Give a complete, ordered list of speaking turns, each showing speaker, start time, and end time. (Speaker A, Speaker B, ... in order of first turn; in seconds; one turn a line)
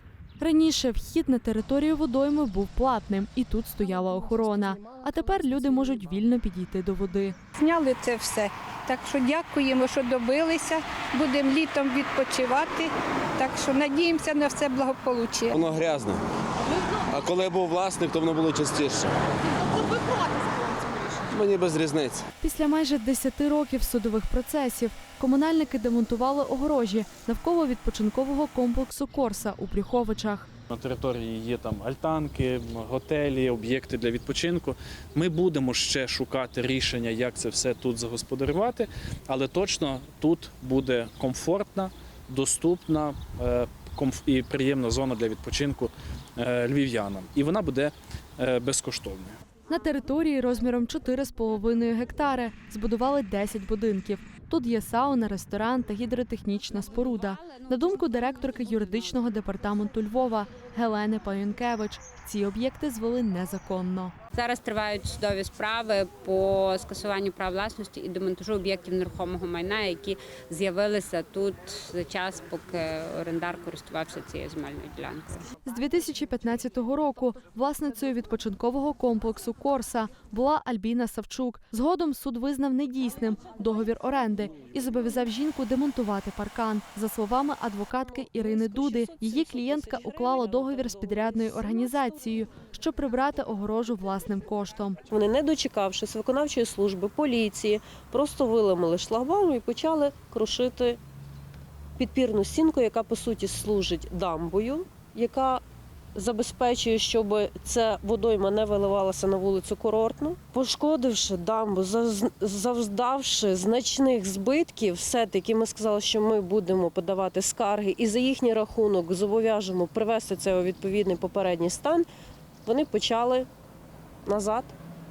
Speaker A: 0.4-7.3
Speaker B: 7.5-15.6
Speaker C: 15.5-16.1
Speaker C: 17.0-19.0
Speaker B: 19.7-21.0
Speaker C: 21.3-22.2
Speaker A: 22.4-30.5
Speaker D: 30.7-49.4
Speaker A: 49.7-64.1
Speaker E: 56.9-59.1
Speaker E: 64.3-75.5
Speaker A: 75.6-95.0
Speaker F: 88.4-91.9
Speaker F: 95.1-101.0
Speaker F: 102.0-105.6
Speaker F: 106.1-122.1
Speaker F: 122.7-123.5
Speaker F: 124.2-124.7